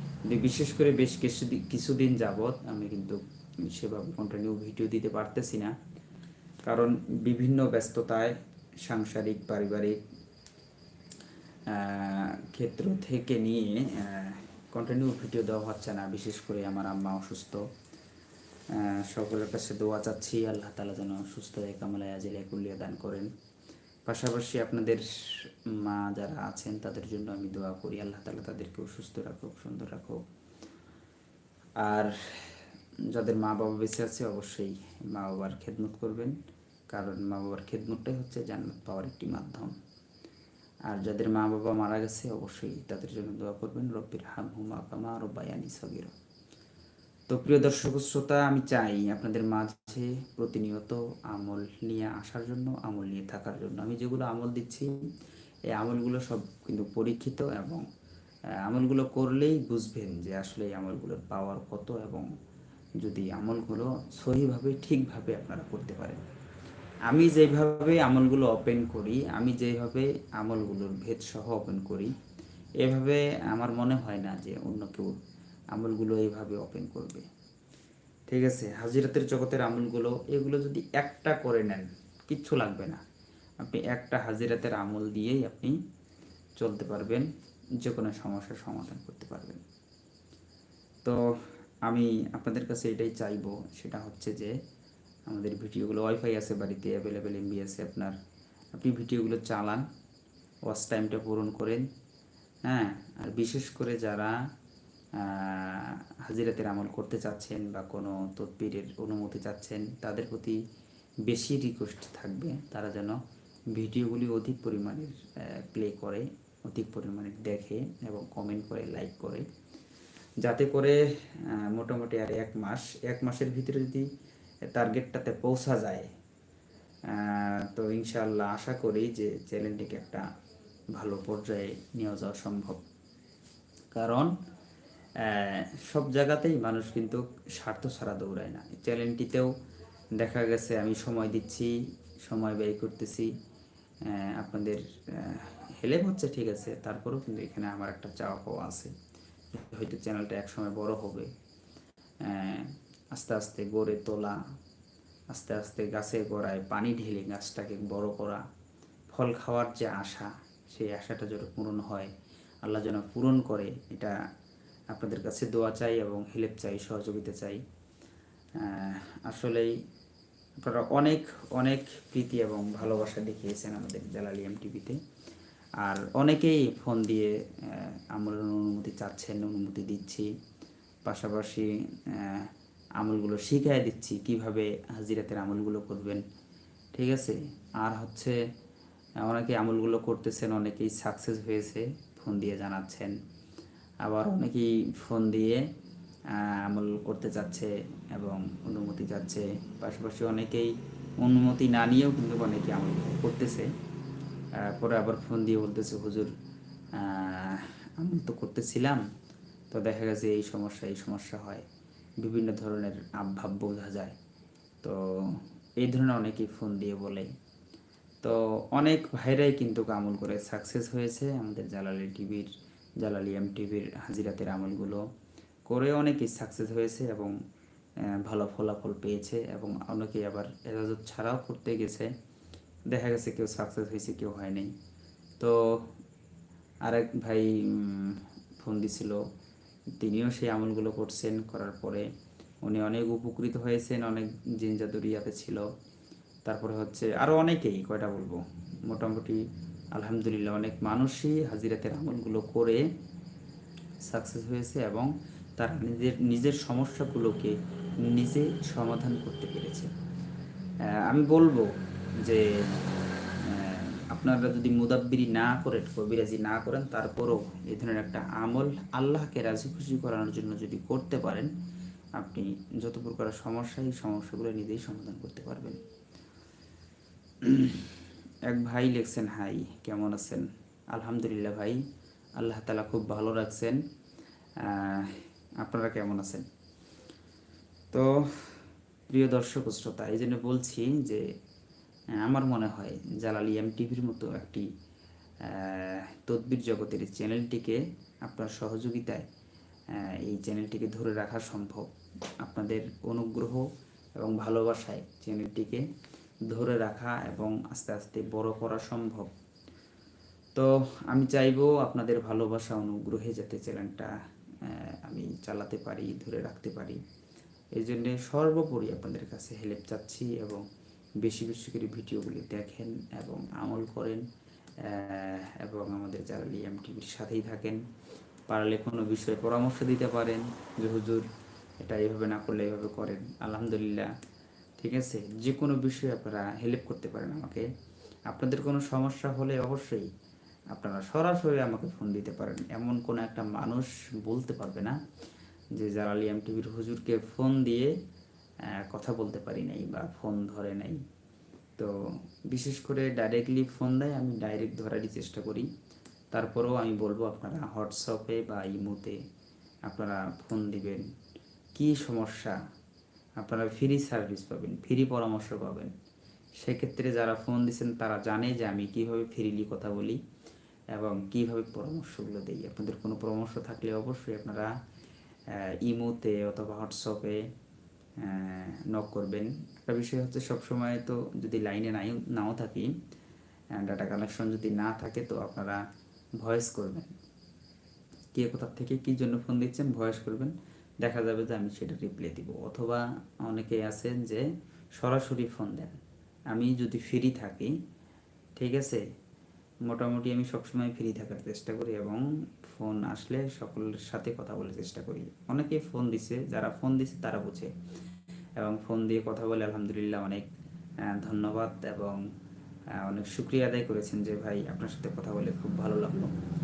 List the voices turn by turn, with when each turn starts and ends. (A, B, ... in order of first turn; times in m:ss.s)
0:00.3-0:05.8 A
0:06.6-0:10.0 A
0:11.7-0:17.7 A
0:18.7-0:23.3 A
0:24.1-0:30.2 A
0:31.8-0:36.4 A
0:36.9-0:39.7 A
0:40.9-0:46.1 A
0:47.3-0:55.1 A
0:55.7-0:57.8 A
0:58.6-1:02.3 A
1:03.0-1:06.2 A
1:07.1-1:12.1 A
1:12.8-1:15.2 A
1:15.7-1:17.3 A
1:18.3-1:23.0 A
1:23.6-1:25.8 A
1:26.6-1:27.3 A
1:27.8-1:29.6 A
1:31.9-1:34.6 A
1:35.3-1:38.2 A
1:38.8-1:39.8 A
1:40.7-1:41.9 A
1:42.7-1:44.4 A
1:45.2-1:50.6 A
1:51.3-1:53.2 A
1:53.7-1:59.5 A
2:00.4-2:04.1 A
2:04.7-2:06.1 A
2:07.1-2:10.2 A
2:10.9-2:12.8 A
2:13.9-2:14.3 A
2:15.2-2:19.5 A
2:20.2-2:23.3 A
2:24.0-2:28.9 A
2:29.5-2:31.3 A
2:32.2-2:34.4 A
2:35.3-2:38.4 A
2:39.1-2:42.1 A
2:42.6-2:44.2 A
2:44.9-2:47.6 A
2:48.6-2:49.8 A
2:50.6-2:55.0 A
2:55.8-3:00.3 A
3:01.0-3:06.2 A
3:06.9-3:08.4 A
3:09.2-3:13.2 A
3:14.0-3:15.7 A
3:16.3-3:23.7 A
3:24.6-3:26.3 A
3:26.9-3:29.0 A
3:29.7-3:31.6 A
3:32.2-3:34.2 A
3:34.8-3:37.3 A
3:38.2-3:45.0 A
3:45.7-3:47.4 A
3:48.1-3:52.1 A
3:52.9-3:54.7 A
3:55.4-3:55.9 A
3:56.8-3:59.2 A
4:00.0-4:02.1 A
4:02.6-4:05.7 A
4:06.5-4:09.4 A
4:10.0-4:12.8 A
4:14.0-4:19.9 A
4:20.9-4:22.8 A
4:23.4-4:31.5 A
4:32.2-4:35.8 A
4:37.4-4:41.8 A
4:42.4-4:43.8 A
4:44.6-4:46.5 A
4:47.9-4:51.3 A
4:52.2-4:54.7 A
4:55.4-4:59.3 A
4:59.9-5:05.9 A
5:06.5-5:09.3 A
5:10.6-5:17.0 A
5:17.8-5:20.6 A
5:21.2-5:24.2 A
5:24.8-5:27.8 A
5:28.5-5:31.3 A
5:31.8-5:34.1 A
5:34.8-5:37.7 A
5:38.3-5:40.1 A
5:40.7-5:45.0 A
5:45.7-5:47.9 A
5:48.7-5:51.0 A
5:52.5-5:55.7 A
5:56.3-5:59.2 A
5:59.9-6:01.1 A
6:01.8-6:02.6 A
6:03.4-6:05.9 A
6:06.6-6:10.2 A
6:10.9-6:14.8 A
6:15.5-6:17.5 A
6:18.2-6:22.9 A
6:23.7-6:25.8 A
6:26.4-6:27.1 A
6:28.4-6:34.5 A
6:35.0-6:36.0 A
6:36.5-6:37.8 A
6:38.6-6:39.0 A
6:39.9-6:47.7 A
6:48.6-6:50.5 A
6:51.0-6:52.2 A
6:52.9-6:56.3 A